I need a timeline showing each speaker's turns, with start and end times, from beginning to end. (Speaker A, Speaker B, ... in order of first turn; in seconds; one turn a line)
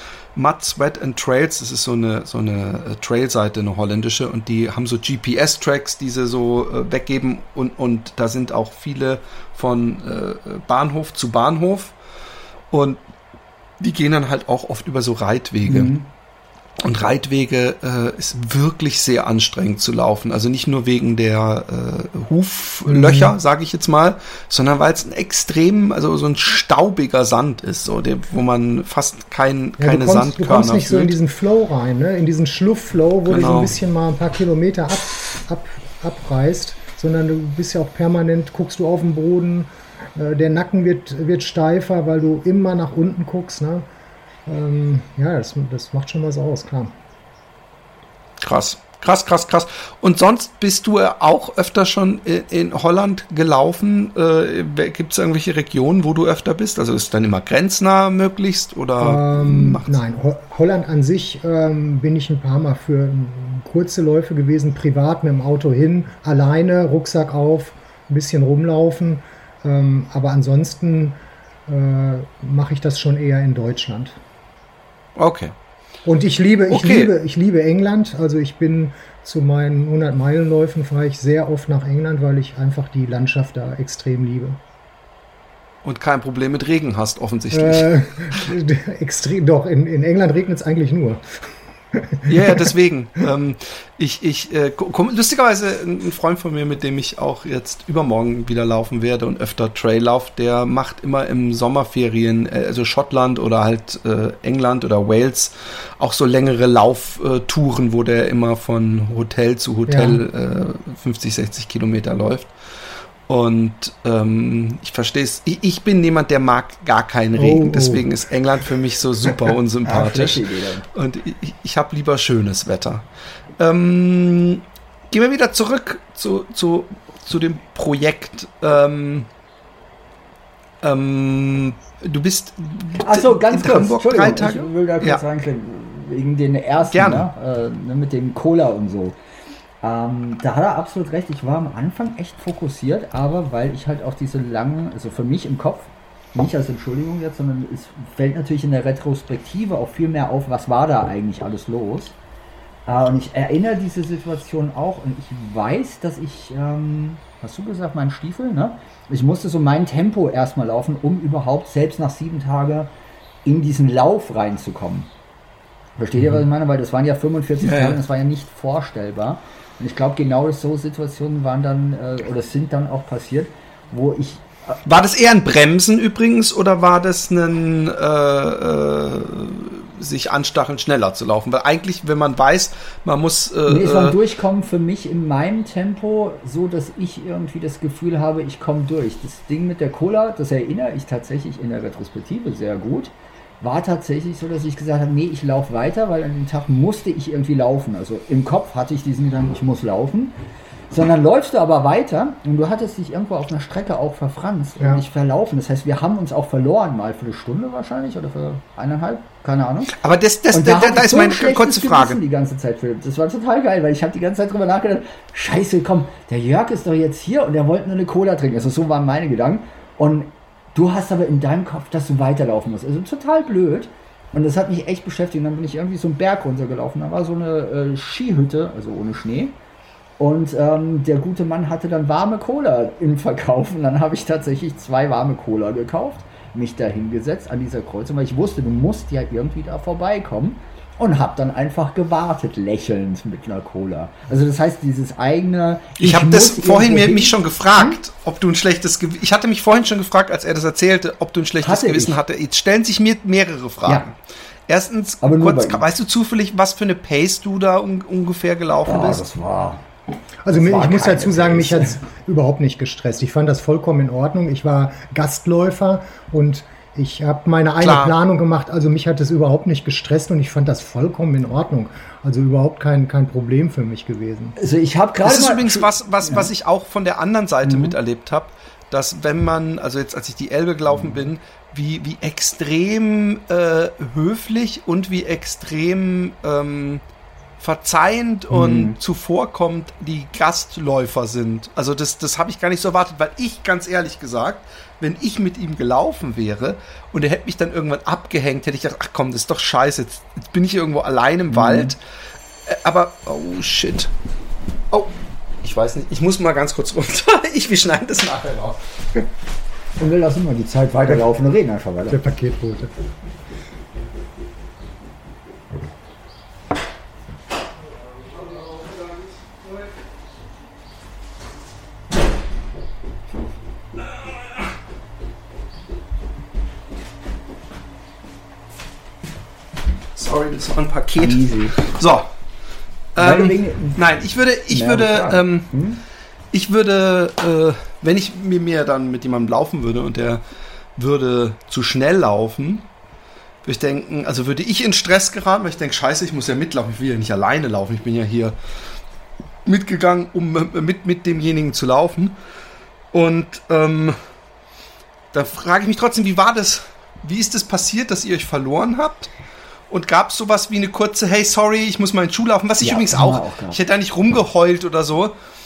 Speaker A: 0.3-11.9
Speaker A: 12.7-13.0
Speaker A: 13.8-15.9
Speaker B: 15.7-16.1
Speaker A: 16.8-31.2
Speaker C: 22.9-23.4
Speaker C: 29.8-43.9
Speaker A: 33.3-33.7
Speaker C: 44.5-46.9
Speaker A: 48.4-60.0
Speaker C: 59.0-74.2
Speaker A: 75.2-75.5
Speaker C: 76.0-84.6
Speaker A: 76.7-77.1
Speaker A: 85.8-88.5
Speaker C: 87.5-91.2
Speaker C: 91.9-92.7
Speaker A: 92.3-112.5
Speaker C: 109.9-110.2
Speaker A: 113.3-123.0
Speaker C: 117.4-118.1
Speaker B: 119.9-120.9
Speaker A: 123.6-129.3
Speaker A: 130.8-135.2
Speaker B: 133.0-139.2
Speaker A: 136.9-137.3
Speaker B: 139.8-152.2
Speaker B: 152.9-162.9
Speaker B: 163.4-165.1
Speaker B: 166.0-174.8
Speaker A: 167.6-168.0
Speaker A: 174.8-184.2
Speaker B: 183.7-200.3
Speaker B: 200.9-210.0
Speaker C: 204.8-205.1
Speaker A: 209.9-212.2
Speaker B: 210.5-229.6
Speaker B: 230.2-248.0
Speaker A: 246.0-254.2
Speaker B: 251.6-252.2
Speaker A: 254.7-259.2
Speaker B: 255.2-255.8
Speaker B: 258.9-259.8
Speaker C: 260.4-274.6
Speaker B: 260.5-262.0
Speaker A: 267.8-268.2
Speaker B: 274.6-276.5
Speaker A: 275.2-287.0
Speaker B: 277.6-278.0
Speaker A: 287.6-302.0
Speaker B: 288.5-289.0
Speaker B: 301.5-301.9
Speaker A: 302.7-304.1
Speaker A: 305.6-308.8
Speaker B: 310.0-312.2
Speaker C: 312.1-312.9
Speaker A: 318.5-319.3
Speaker A: 330.2-332.3
Speaker B: 331.2-331.8
Speaker A: 333.1-335.7
Speaker B: 333.2-334.0
Speaker B: 334.7-336.0
Speaker A: 336.5-340.4
Speaker A: 341.0-342.9
Speaker A: 343.6-348.6
Speaker A: 349.7-352.4
Speaker A: 353.1-354.2
Speaker A: 355.3-359.3
Speaker A: 359.9-365.3
Speaker B: 362.8-363.8